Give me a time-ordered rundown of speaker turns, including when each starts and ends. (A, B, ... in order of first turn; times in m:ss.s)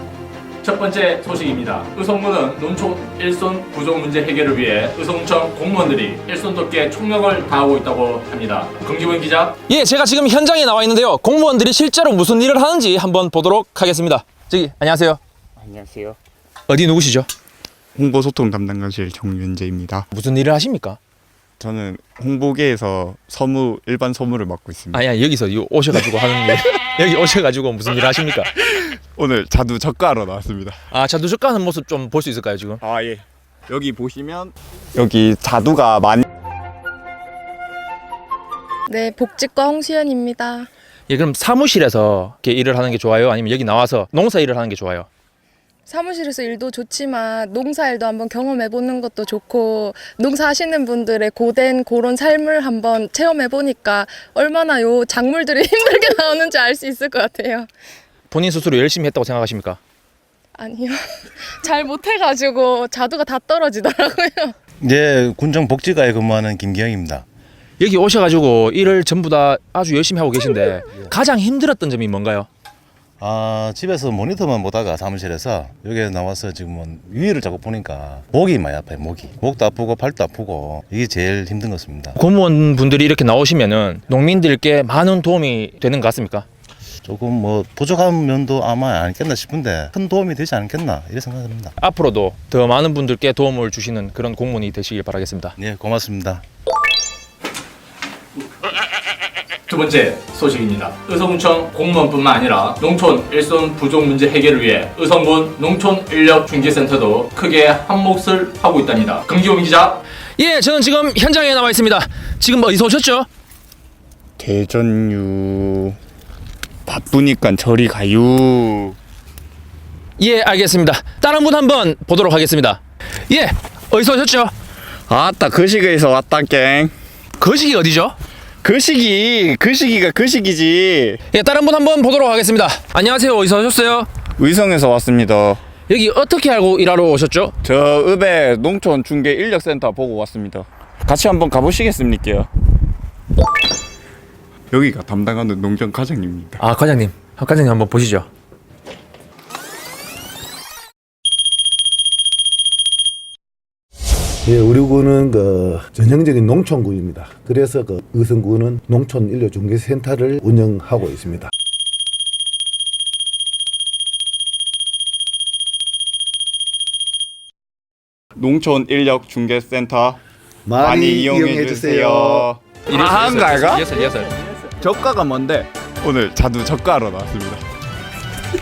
0:00.6-0:09.7 A
0:09.7-0:15.2 B
0:15.6-0:16.2 C
0:16.7-0:17.3 B
0:18.0-0:20.0 C
0:20.1-0:21.0 B
0:21.6-0:25.1 C
0:24.9-0:28.5 B
0:28.7-0:30.8 C
0:30.9-0:32.8 B
0:32.8-0:36.2 C
0:38.9-0:40.7 D
0:41.1-0:45.1 B
0:45.9-0:57.7 D
0:58.3-0:59.8 B
1:00.6-1:04.6 D
1:04.8-1:07.2 E
1:07.8-1:12.5 B
1:13.2-1:22.2 E
1:22.2-1:26.4 B
1:27.0-1:31.7 E
1:31.8-1:35.6 B
1:35.6-1:36.4 E
1:39.7-1:50.0 A
1:50.4-1:53.3 B
1:54.4-1:56.0 C
1:56.9-1:59.0 C
2:00.2-2:04.5 B
2:05.1-2:06.9 C
2:07.4-2:08.2 B
2:08.6-2:11.2 C
2:11.3-2:14.1 B
2:14.4-2:15.6 C
2:15.9-2:17.5 B
2:17.6-2:22.5 C
2:24.7-2:26.6 C
2:26.6-2:28.3 B
2:34.4-2:41.5 F
2:48.4-2:50.2 C
2:50.6-2:52.5 F
2:50.8-2:53.8 C
2:52.9-2:54.3 B
2:54.8-2:57.6 C